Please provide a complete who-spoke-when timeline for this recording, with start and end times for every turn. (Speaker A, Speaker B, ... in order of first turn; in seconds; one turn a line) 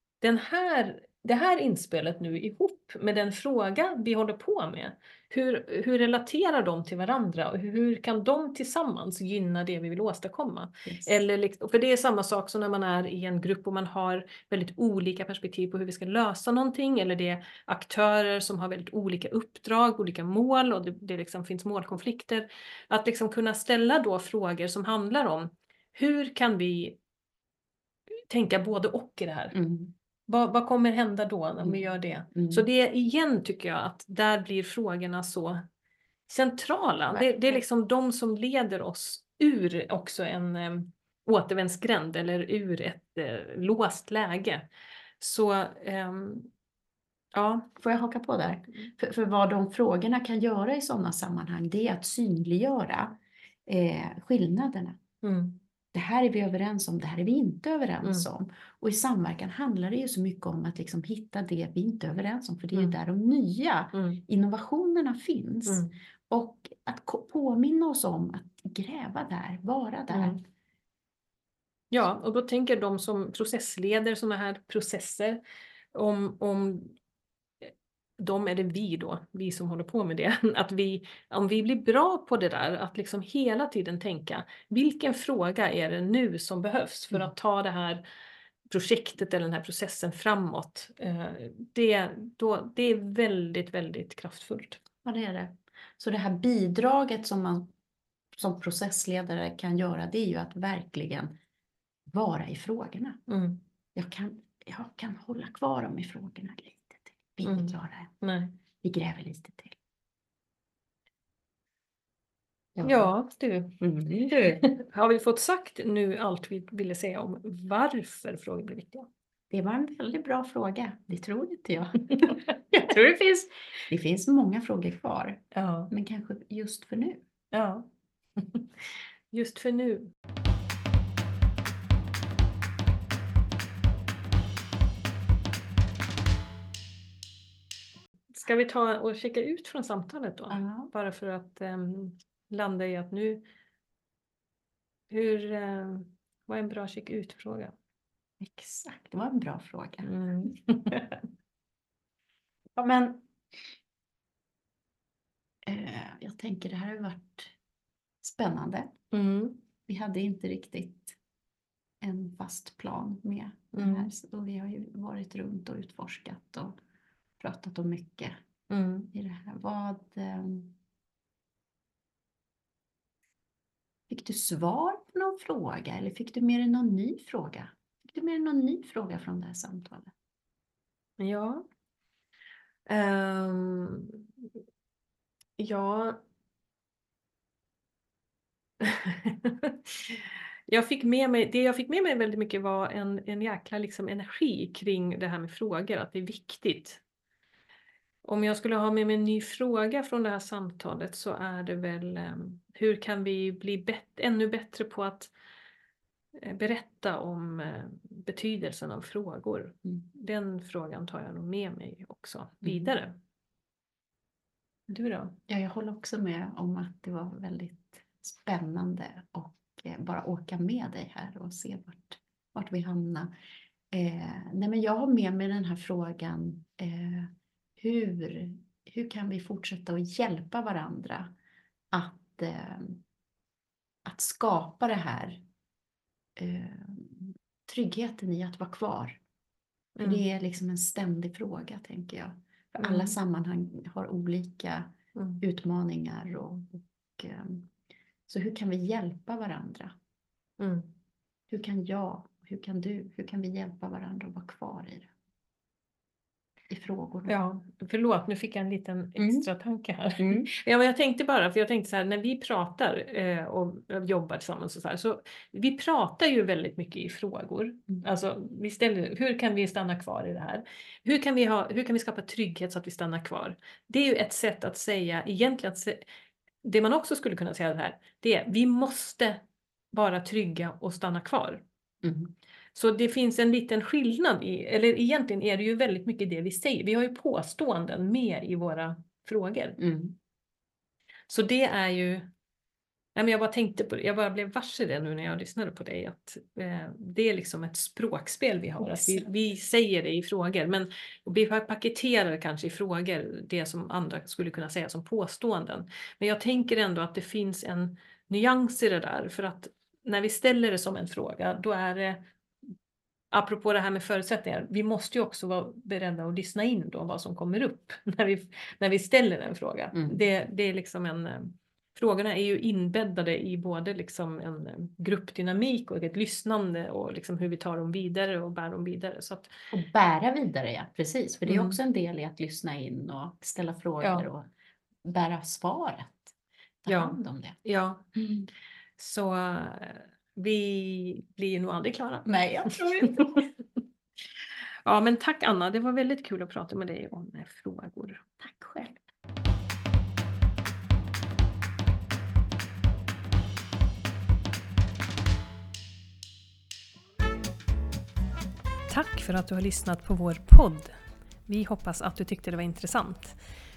Speaker A: 0.2-27.0
Speaker B: 10.8-11.2
Speaker A: 28.3-29.6
Speaker B: 29.5-29.9
Speaker A: 30.3-35.6
Speaker B: 32.3-32.6
Speaker A: 36.3-44.6
Speaker A: 45.2-46.5
Speaker A: 47.3-47.7
Speaker B: 47.8-55.0
Speaker A: 55.2-55.6
Speaker B: 55.9-70.4
Speaker A: 63.9-64.2
Speaker A: 65.7-65.9
Speaker A: 70.1-70.4
Speaker A: 71.9-75.4
Speaker A: 75.9-77.0
Speaker A: 77.6-88.0
Speaker A: 88.7-94.8
Speaker B: 95.0-97.7
Speaker B: 98.3-101.3
Speaker B: 102.1-103.2
Speaker A: 103.3-103.6
Speaker B: 103.9-108.1
Speaker A: 107.4-108.6
Speaker B: 108.8-109.8
Speaker B: 112.7-113.1
Speaker A: 112.8-119.1
Speaker B: 113.8-114.6
Speaker B: 119.5-127.2
Speaker A: 122.1-122.4
Speaker A: 125.5-125.9
Speaker A: 127.5-128.7
Speaker A: 129.3-130.1
Speaker A: 138.3-143.4
Speaker B: 140.5-140.9
Speaker A: 145.1-147.7
Speaker B: 148.4-150.1
Speaker A: 150.0-151.2
Speaker B: 152.8-153.2
Speaker B: 155.6-157.5
Speaker B: 158.2-158.9
Speaker A: 159.1-159.6
Speaker B: 159.9-161.2
Speaker B: 162.0-166.7
Speaker A: 163.7-164.1
Speaker B: 167.4-168.3
Speaker A: 168.7-169.1
Speaker B: 169.1-170.8
Speaker B: 174.1-180.1
Speaker A: 181.2-181.6
Speaker A: 182.9-184.2
Speaker A: 185.6-186.2
Speaker A: 188.8-197.0
Speaker A: 198.2-205.3
Speaker A: 206.4-213.2
Speaker B: 212.6-212.9
Speaker A: 214.9-215.4
Speaker B: 215.5-223.3
Speaker B: 223.9-231.3
Speaker B: 231.9-233.0
Speaker B: 234.0-235.4
Speaker B: 236.3-239.2
Speaker A: 239.9-240.2
Speaker B: 240.0-247.7
Speaker A: 242.8-243.2
Speaker A: 245.1-245.4
Speaker B: 248.3-249.9
Speaker A: 250.6-250.9
Speaker B: 251.5-255.1
Speaker B: 256.7-257.3
Speaker A: 257.3-276.0
Speaker B: 259.2-259.4
Speaker B: 260.2-260.5
Speaker A: 276.6-281.6
Speaker B: 282.0-282.3
Speaker A: 282.7-289.8
Speaker B: 289.8-290.1
Speaker A: 291.3-292.3
Speaker A: 293.1-312.3
Speaker B: 298.8-299.3
Speaker A: 313.3-329.5
Speaker B: 319.9-320.2
Speaker B: 329.7-334.5
Speaker A: 331.5-331.8
Speaker A: 334.0-334.3
Speaker B: 335.0-337.6
Speaker A: 336.9-338.1
Speaker B: 338.1-338.5
Speaker A: 339.0-343.5
Speaker B: 342.2-343.4
Speaker A: 344.9-348.2
Speaker B: 348.4-349.0
Speaker A: 358.9-360.9
Speaker A: 361.4-363.4